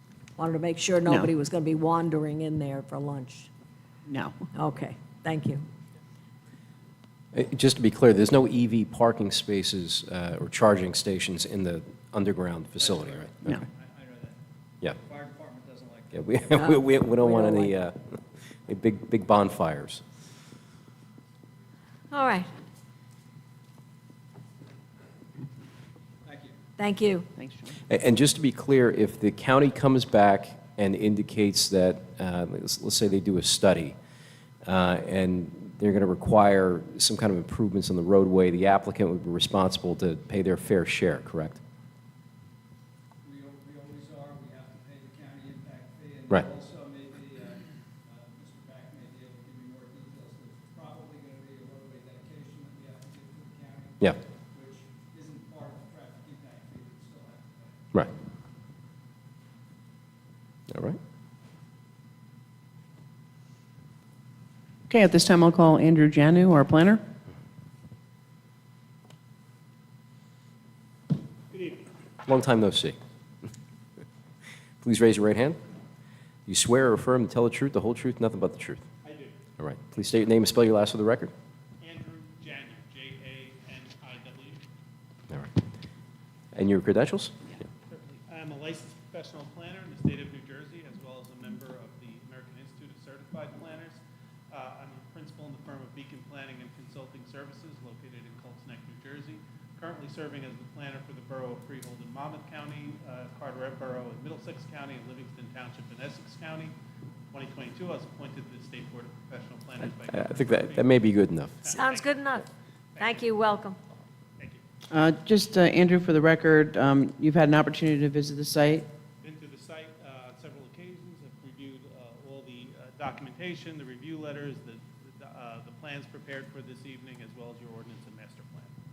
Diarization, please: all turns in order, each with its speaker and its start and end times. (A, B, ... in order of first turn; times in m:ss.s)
0:00.4-0:03.5 A
0:01.1-0:01.3 B
0:04.1-0:04.4 B
0:04.5-0:05.7 A
0:07.3-0:13.6 C
0:12.8-0:16.8 D
0:16.1-0:20.0 C
0:16.6-0:17.7 A
0:22.1-0:22.5 A
0:26.2-0:26.6 D
0:26.8-0:27.3 A
0:27.4-0:27.8 B
0:27.9-0:34.0 C
0:34.6-0:41.6 C
0:43.2-0:58.0 D
1:00.7-1:01.0 C
1:04.9-1:07.0 B
1:11.5-1:11.9 E
1:12.3-1:13.0 C
1:14.8-1:15.6 C
1:16.5-1:18.8 C
1:19.0-1:19.4 E
1:19.6-1:21.3 C
1:21.8-1:24.6 E
1:26.5-1:27.3 C
1:27.9-1:34.0 E
1:34.5-1:46.8 E
1:47.3-1:50.9 E
1:50.1-1:51.6 C
1:51.6-1:52.4 E
1:51.7-1:52.5 A
1:53.0-1:53.3 E
1:53.0-1:53.8 A
1:54.9-1:58.9 B
1:59.2-2:08.7 E